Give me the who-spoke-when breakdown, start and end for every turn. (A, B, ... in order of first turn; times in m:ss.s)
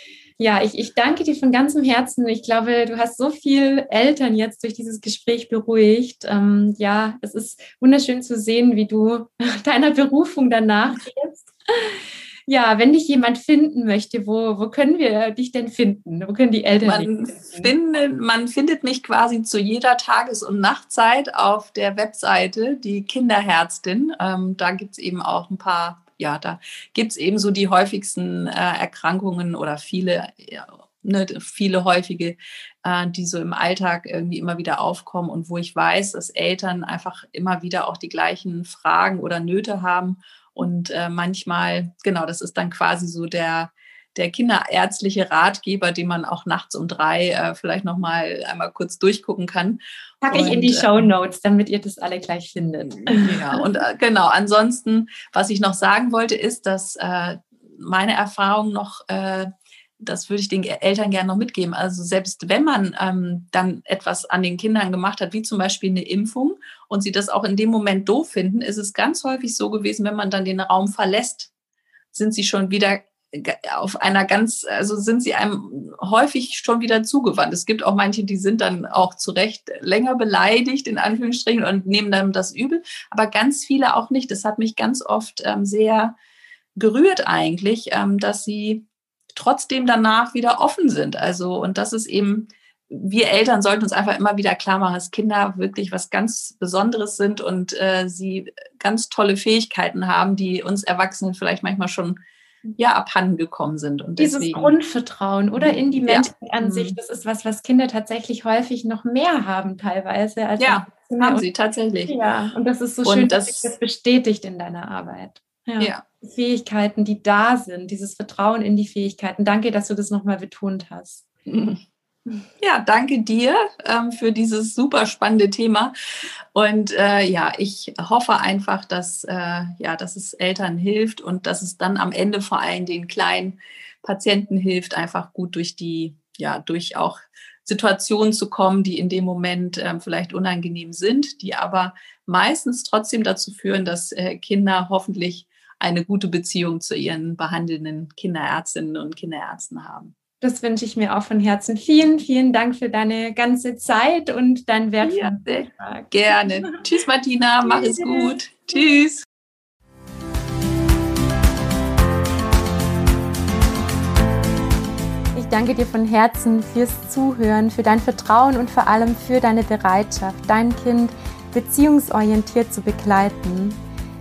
0:00.4-0:17.7 A
0:16.8-0:51.1 B
0:50.2-0:53.6 A
0:53.0-0:59.5 B
1:00.0-1:11.5 B
1:12.1-1:26.2 B
1:26.8-1:42.2 B
1:42.8-1:44.7 B
1:44.2-1:51.5 A
1:45.6-1:47.0 B
1:50.6-1:52.1 B
1:52.1-2:01.2 A
1:53.0-1:53.7 B
2:01.5-2:01.8 B
2:02.6-2:05.9 B
2:06.5-2:30.1 B
2:30.4-2:36.8 A
2:35.0-2:39.2 B
2:37.6-2:38.4 A
2:45.3-2:53.8 A